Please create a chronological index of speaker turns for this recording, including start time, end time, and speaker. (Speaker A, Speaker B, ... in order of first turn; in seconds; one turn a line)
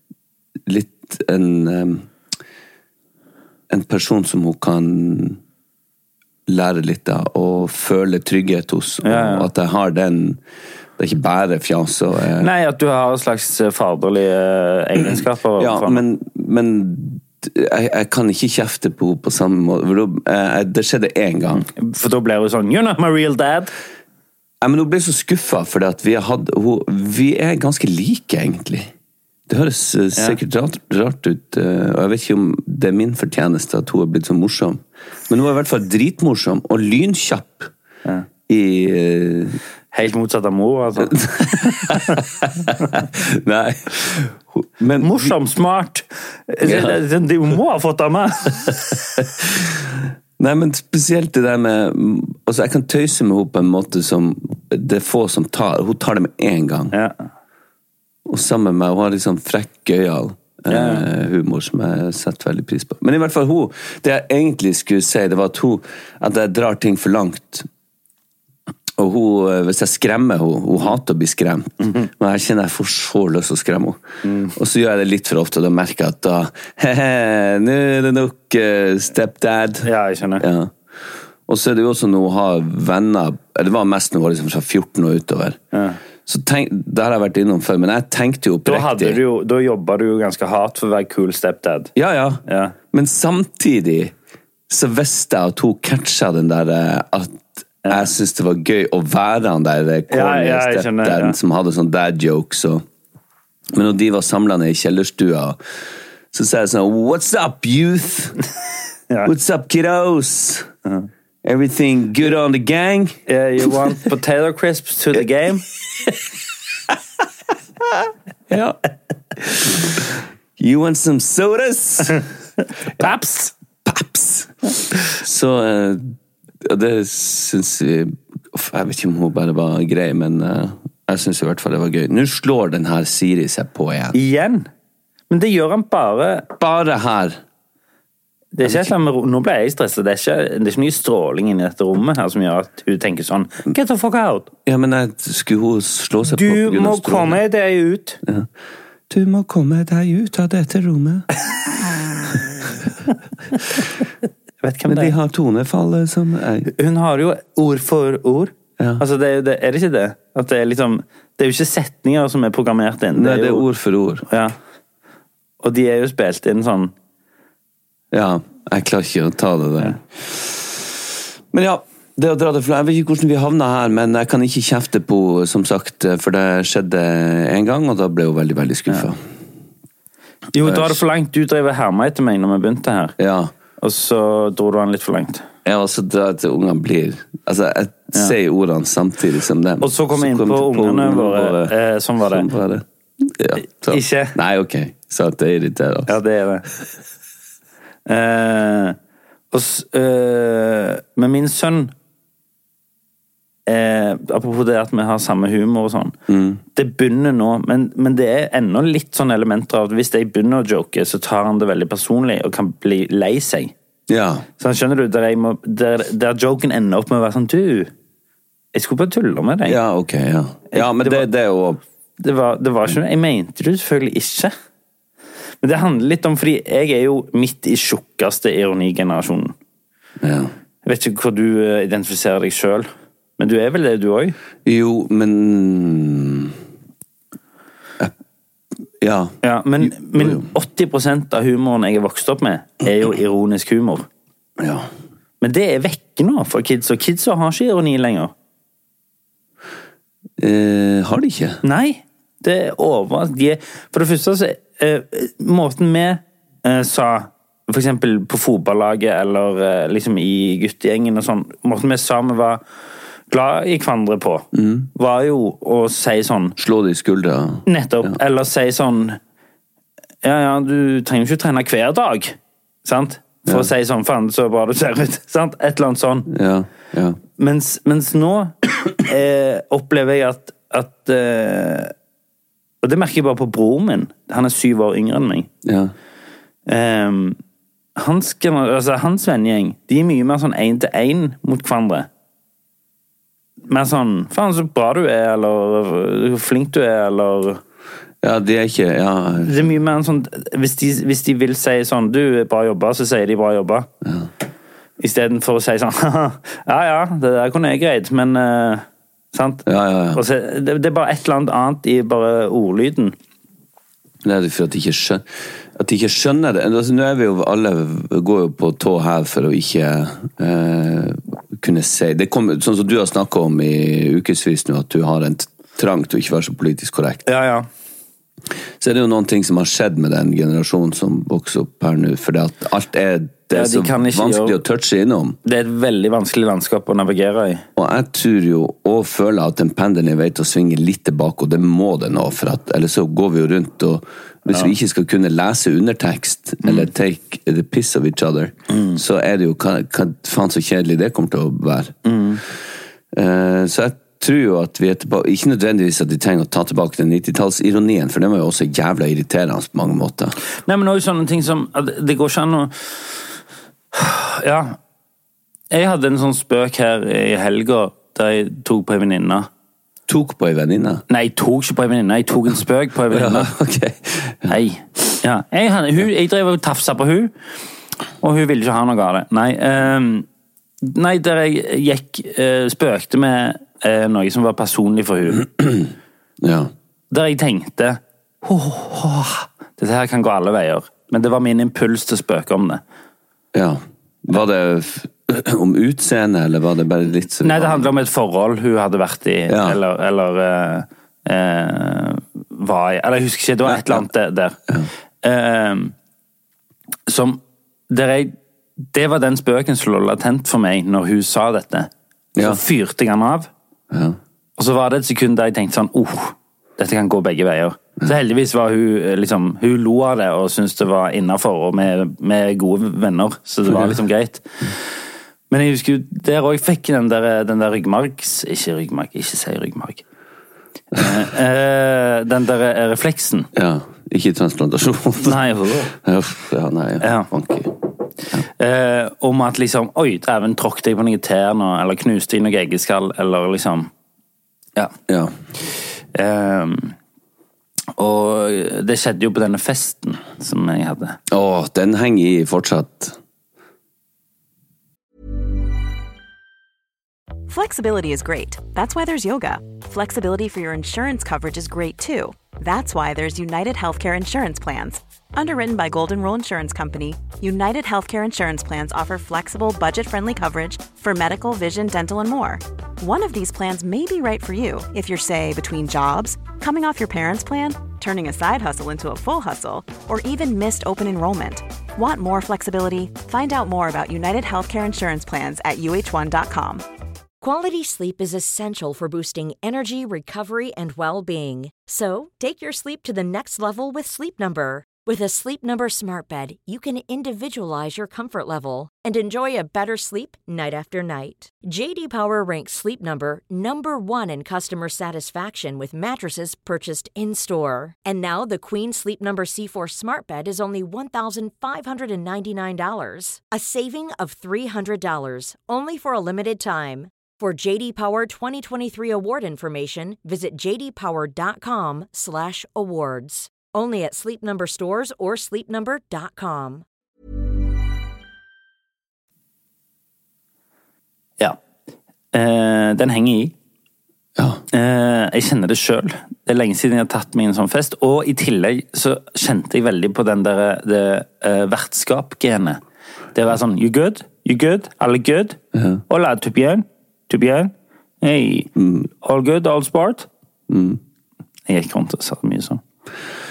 Speaker A: 0.7-2.1
Speaker A: 3.7-5.4
Speaker A: 6.5-10.4
Speaker B: 9.0-9.5
Speaker A: 11.0-12.5
Speaker B: 12.4-16.0
Speaker A: 15.6-21.6
Speaker B: 21.8-23.7
Speaker A: 24.6-28.9
Speaker A: 29.5-37.7
Speaker A: 38.5-39.6
Speaker B: 39.9-42.2
Speaker A: 41.0-45.4
Speaker B: 45.0-49.0
Speaker A: 46.6-47.0
Speaker A: 48.7-56.9
Speaker A: 58.2-67.7
Speaker B: 60.7-61.0
Speaker A: 69.0-74.0
Speaker B: 71.8-72.1
Speaker B: 74.2-74.5
Speaker A: 74.5-80.7
Speaker B: 79.8-80.5
Speaker A: 81.5-85.6
Speaker B: 85.7-86.0
Speaker A: 86.2-89.2
Speaker B: 88.6-91.9
Speaker A: 91.9-94.1
Speaker B: 92.5-92.7
Speaker A: 94.7-102.8
Speaker B: 97.8-98.1
Speaker B: 100.1-101.4
Speaker A: 103.7-105.6
Speaker A: 106.3-108.5
Speaker A: 109.2-110.7
Speaker A: 111.4-113.2
Speaker B: 113.3-115.6
Speaker A: 118.5-118.8
Speaker A: 119.4-120.0
Speaker A: 120.6-122.2
Speaker B: 123.0-123.5
Speaker A: 123.8-134.2
Speaker B: 134.1-134.7
Speaker B: 135.3-136.5
Speaker A: 136.6-137.4
Speaker B: 138.5-144.5
Speaker A: 138.6-138.9
Speaker A: 144.7-147.4
Speaker B: 146.3-148.2
Speaker A: 149.1-151.3
Speaker A: 152.3-152.7
Speaker B: 154.6-155.1
Speaker A: 154.9-156.7
Speaker B: 156.7-163.7
Speaker A: 163.1-164.2
Speaker B: 164.3-164.5
Speaker B: 165.6-166.9
Speaker A: 168.1-170.9
Speaker A: 171.5-179.2
Speaker B: 180.5-183.2
Speaker A: 180.6-181.0
Speaker A: 183.2-183.5
Speaker B: 183.8-185.4
Speaker A: 185.6-196.2
Speaker B: 189.8-192.5
Speaker B: 193.9-194.3
Speaker B: 196.1-196.7
Speaker B: 198.1-198.9
Speaker B: 199.5-201.9
Speaker B: 203.7-206.1
Speaker A: 206.3-206.6
Speaker B: 206.7-213.7
Speaker A: 214.1-214.4
Speaker B: 214.6-217.9
Speaker B: 218.7-219.8
Speaker A: 219.7-221.8
Speaker B: 220.7-221.2
Speaker B: 222.2-224.5
Speaker B: 225.6-229.5
Speaker A: 230.2-230.5
Speaker B: 230.8-234.3
Speaker A: 234.6-236.6
Speaker A: 239.0-240.5
Speaker B: 239.4-244.1
Speaker A: 244.6-244.9
Speaker B: 245.4-248.3
Speaker A: 250.4-251.6
Speaker B: 251.6-262.6
Speaker B: 263.3-266.6
Speaker A: 264.5-264.9
Speaker A: 266.6-268.1
Speaker B: 267.6-269.2
Speaker B: 270.2-276.3
Speaker A: 276.3-277.2
Speaker B: 277.4-281.9
Speaker B: 282.8-285.5
Speaker A: 285.6-285.9
Speaker B: 286.7-287.4
Speaker B: 287.9-292.1
Speaker B: 293.7-297.6
Speaker A: 298.2-299.7
Speaker B: 299.4-303.9
Speaker B: 305.0-313.1
Speaker A: 309.6-310.2
Speaker A: 314.2-327.2
Speaker B: 327.2-327.7
Speaker A: 328.8-335.4
Speaker B: 333.5-334.6
Speaker B: 335.4-337.6
Speaker A: 337.8-351.9
Speaker B: 348.7-349.0
Speaker B: 352.0-352.4
Speaker A: 353.1-360.4
Speaker B: 360.6-362.9
Speaker B: 363.9-364.8
Speaker B: 365.7-369.5
Speaker A: 370.1-371.0
Speaker B: 371.1-373.5
Speaker A: 373.1-374.6
Speaker B: 374.5-377.3
Speaker B: 378.2-380.2
Speaker B: 380.8-385.4
Speaker A: 386.4-386.7
Speaker B: 387.1-392.8
Speaker A: 393.5-397.9
Speaker B: 397.4-404.6
Speaker A: 399.5-399.8
Speaker A: 403.6-404.1
Speaker B: 405.2-405.9
Speaker B: 407.1-408.3
Speaker B: 408.9-413.5
Speaker A: 412.4-412.6
Speaker A: 413.9-414.2
Speaker B: 414.6-424.8
Speaker A: 423.7-423.9
Speaker B: 425.5-430.0
Speaker B: 430.9-433.5
Speaker A: 433.5-437.7
Speaker B: 435.2-435.9
Speaker B: 437.0-437.3
Speaker B: 438.6-443.9
Speaker A: 445.1-445.3
Speaker B: 446.1-446.9
Speaker B: 448.0-451.2
Speaker A: 451.3-453.2
Speaker C: 457.5-486.8
Speaker D: 487.4-526.8
Speaker B: 532.3-533.5
Speaker A: 534.4-534.6
Speaker B: 534.7-542.8
Speaker B: 543.3-545.6
Speaker A: 545.7-546.0
Speaker B: 546.1-550.3
Speaker A: 548.8-549.1
Speaker A: 550.7-551.0
Speaker B: 551.7-552.8